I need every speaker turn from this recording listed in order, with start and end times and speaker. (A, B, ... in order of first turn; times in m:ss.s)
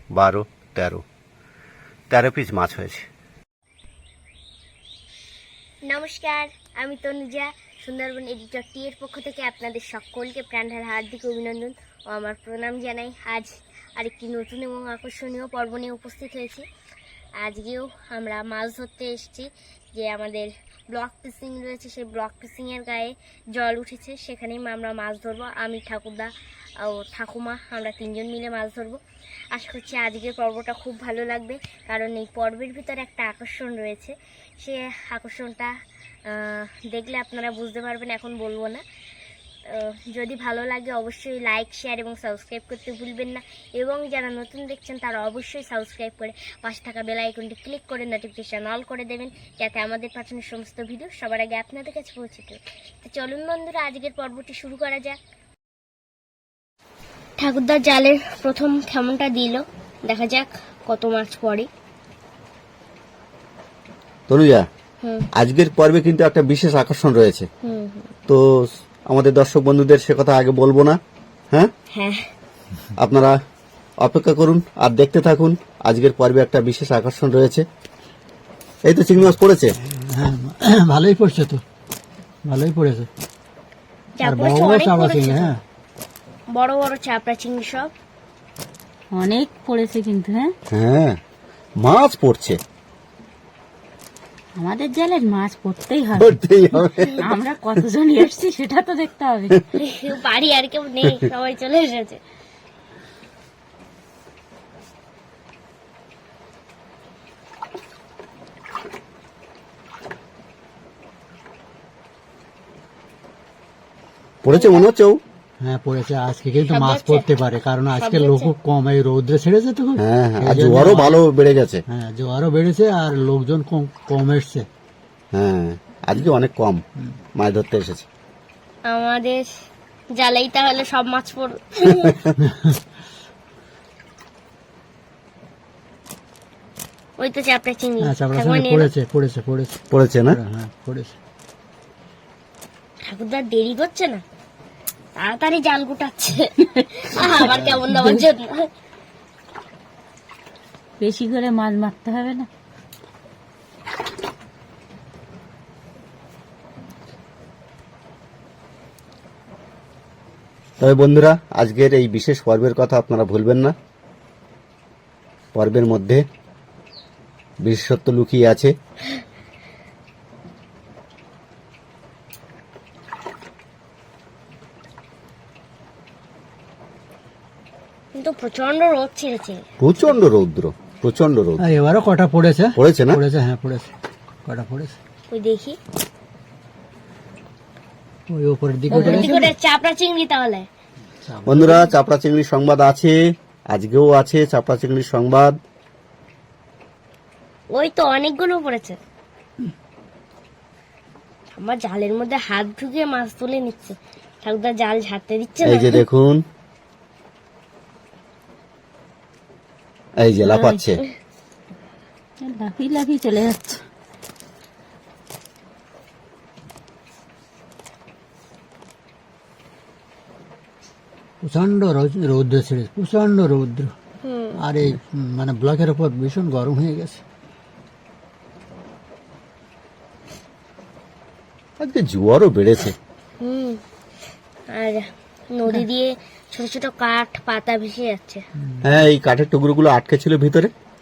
0:00.1-0:01.0 A
0:02.1-0:03.1 A
0:05.9-0:16.6 B
0:17.4-0:26.3 B
0:26.8-0:29.0 B
0:29.5-0:35.7 B
0:36.3-0:38.8 B
0:39.7-0:55.2 B
0:57.4-1:01.7 B
1:04.3-1:04.6 A
1:05.4-1:07.5 A
1:07.6-1:08.1 B
1:08.3-1:11.0 A
1:12.0-1:12.2 B
1:13.0-1:13.4 A
1:14.0-1:17.7 A
1:18.9-1:19.7 A
1:19.8-1:21.6 C
1:22.5-1:23.1 C
1:24.2-1:25.5 B
1:24.2-1:25.6 C
1:26.5-1:27.9 B
1:29.1-1:30.5 D
1:30.7-1:31.2 A
1:31.8-1:32.6 A
1:34.6-1:36.4 D
1:36.2-1:37.3 A
1:37.2-1:39.6 D
1:39.8-1:42.2 B
1:54.4-1:55.2 A
1:54.5-1:54.9 B
1:55.6-2:01.2 C
1:56.6-1:57.3 B
1:57.9-1:58.5 B
2:00.0-2:01.8 A
2:01.9-2:04.7 C
2:05.3-2:06.8 A
2:07.4-2:08.1 A
2:08.9-2:09.5 B
2:10.2-2:12.2 B
2:12.4-2:12.8 C
2:17.2-2:18.9 B
2:18.0-2:21.2 C
2:19.9-2:20.4 A
2:23.0-2:24.2 B
2:25.2-2:28.7 B
2:27.4-2:27.7 C
2:27.9-2:28.2 D
2:31.0-2:32.5 D
2:40.8-2:43.7 A
2:45.6-2:46.2 A
2:47.6-2:48.7 A
2:58.2-2:59.6 B
2:59.8-3:01.6 A
3:01.6-3:03.9 C
3:02.8-3:03.2 A
3:04.4-3:05.0 C
3:05.3-3:05.8 B
3:08.3-3:09.5 C
3:08.9-3:10.7 B
3:08.9-3:09.4 D
3:11.2-3:11.9 C
3:11.5-3:13.2 A
3:13.7-3:15.6 A
3:17.7-3:19.0 B
3:21.6-3:26.0 B
3:25.6-3:26.4 A
3:30.2-3:31.0 A
3:30.4-3:30.9 D
3:32.4-3:33.8 D
3:41.4-3:43.9 C
3:44.2-3:44.6 B
3:44.6-3:47.2 C
3:51.8-3:53.0 A
3:53.4-3:53.8 B
3:54.7-3:58.4 B
3:58.6-3:59.0 C
3:58.8-4:00.7 A